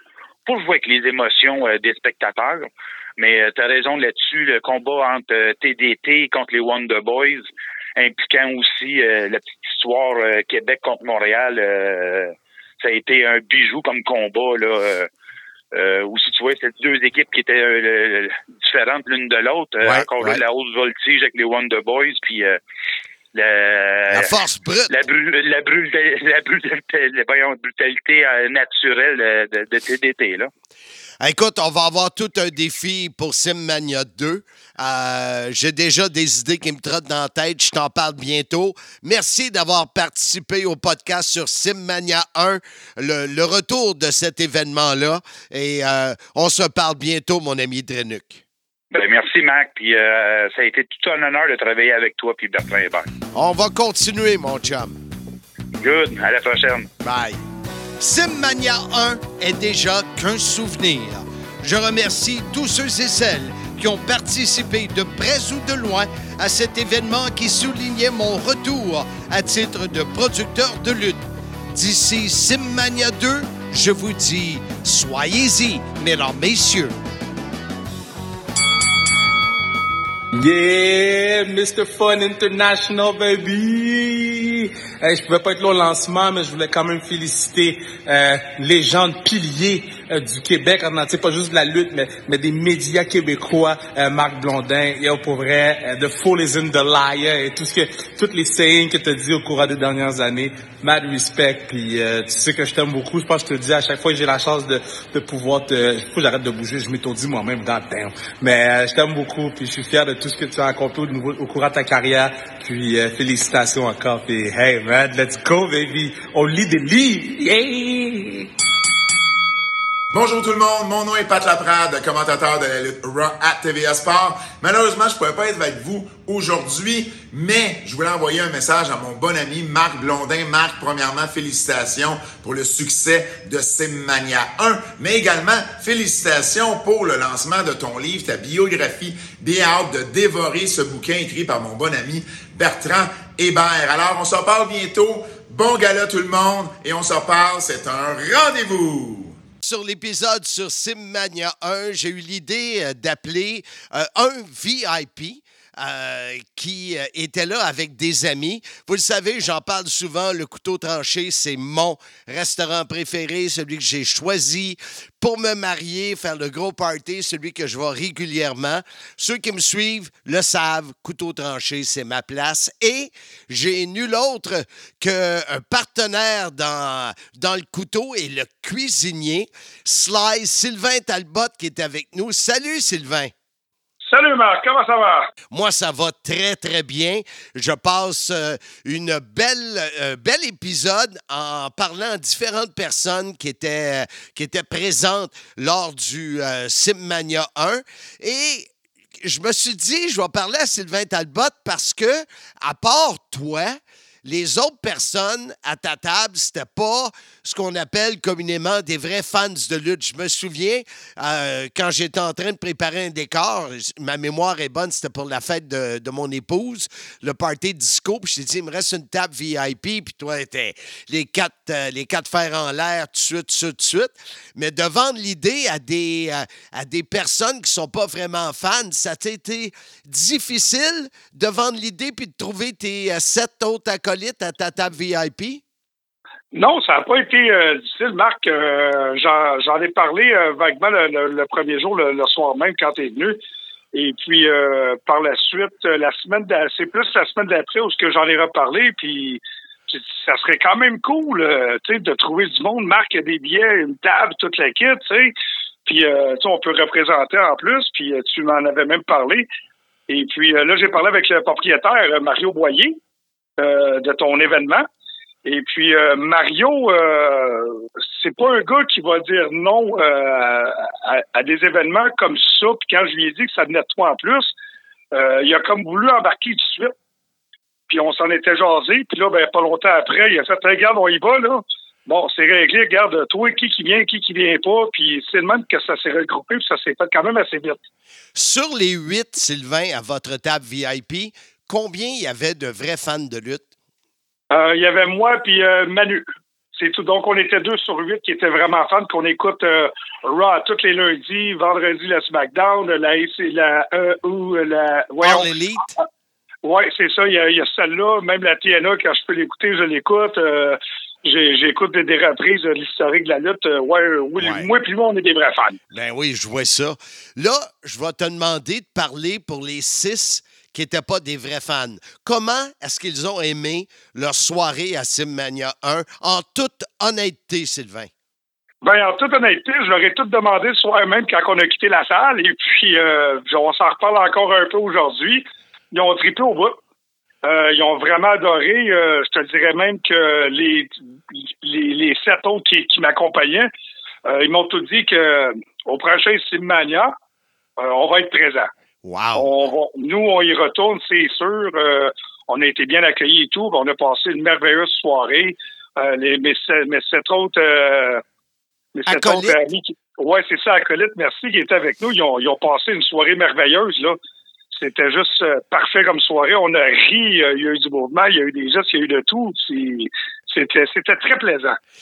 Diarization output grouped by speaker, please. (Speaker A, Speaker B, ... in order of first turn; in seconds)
Speaker A: 0.5-15.1, 15.7-22.6, 23.3-24.4, 24.9-30.5, 48.9-53.1, 55.8-56.9
Speaker B: 19.8-20.4, 24.1-24.9, 31.2-48.4, 53.3-55.0, 57.0-57.4, 58.0-76.9, 149.6-183.3, 185.5-198.7, 199.2-235.6, 288.3-293.6, 305.2-305.9, 314.4-314.7, 315.9-328.1, 349.0-349.5, 359.1-359.6
Speaker C: 80.3-118.5
Speaker D: 120.1-149.4
Speaker E: 184.1-185.3, 236.5-243.4, 243.9-255.3, 255.8-259.5, 260.1-263.0, 263.6-264.9, 265.4-274.5, 275.1-276.9, 277.9-287.8, 294.5-296.2, 296.8-305.5, 306.6-315.8, 328.8-336.8, 337.4-343.7, 344.3-347.1, 347.8-348.7, 349.4-358.2, 358.9-364.2, 364.7-371.8